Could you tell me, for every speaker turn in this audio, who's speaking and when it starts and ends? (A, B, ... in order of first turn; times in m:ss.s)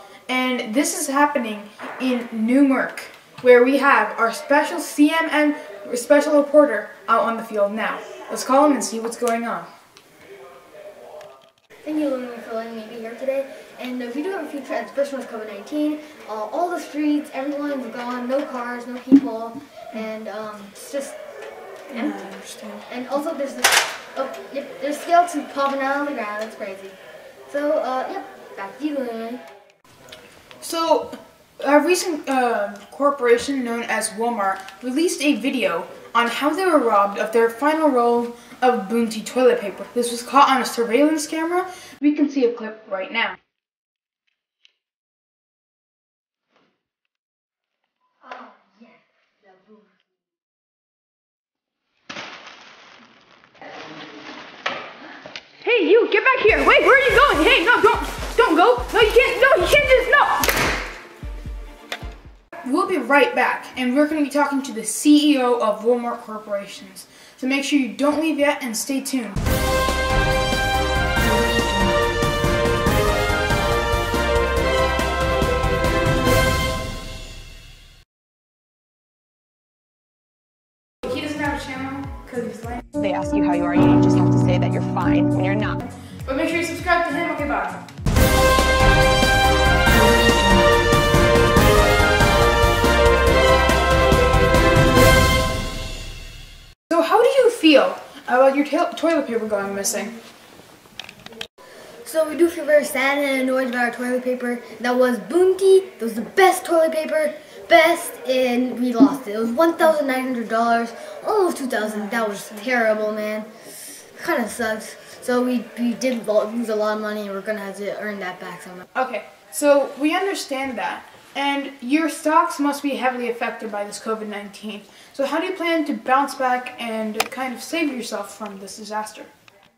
0:00.3-0:09.7 A
0:11.8-0:21.2 B
0:21.9-0:22.9 A
0:21.9-0:22.2 B
0:22.9-0:29.4 B
0:30.6-0:43.4 A
0:48.2-0:49.9 B
0:55.6-1:00.5 A
1:02.6-1:09.4 A
1:21.0-1:23.0 A
1:23.0-1:25.8 C
1:26.0-1:27.9 A
1:36.9-1:40.2 A
1:42.0-1:53.5 B
1:52.1-1:52.7 A
1:54.1-1:58.9 B
1:58.9-2:09.3 A